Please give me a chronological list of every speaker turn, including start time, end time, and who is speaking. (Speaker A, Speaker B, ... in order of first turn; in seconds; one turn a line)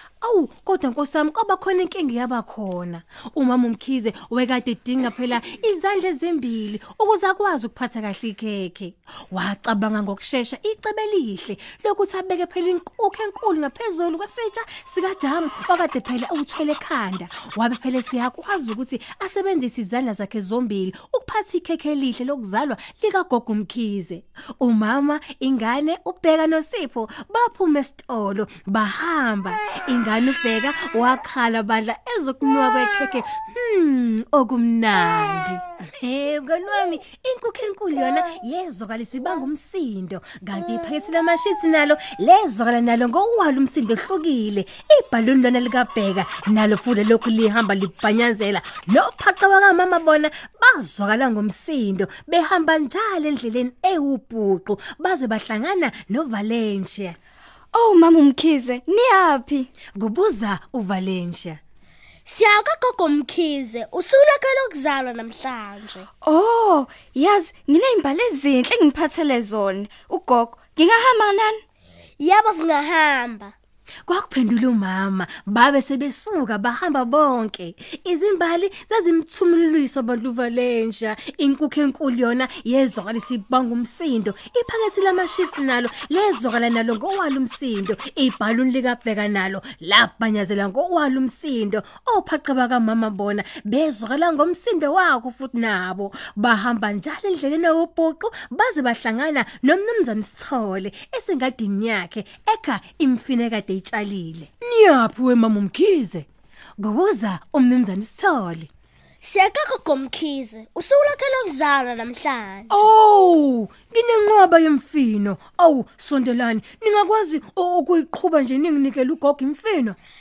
Speaker A: 0.2-57.1
Speaker B: 57.7-59.7
Speaker A: 60.0-61.6
Speaker C: 62.2-66.1
Speaker B: 66.2-71.6
Speaker C: 72.2-73.5
Speaker A: 74.1-106.3
Speaker A: 106.8-108.7
Speaker C: 109.2-112.9
Speaker A: 112.7-120.0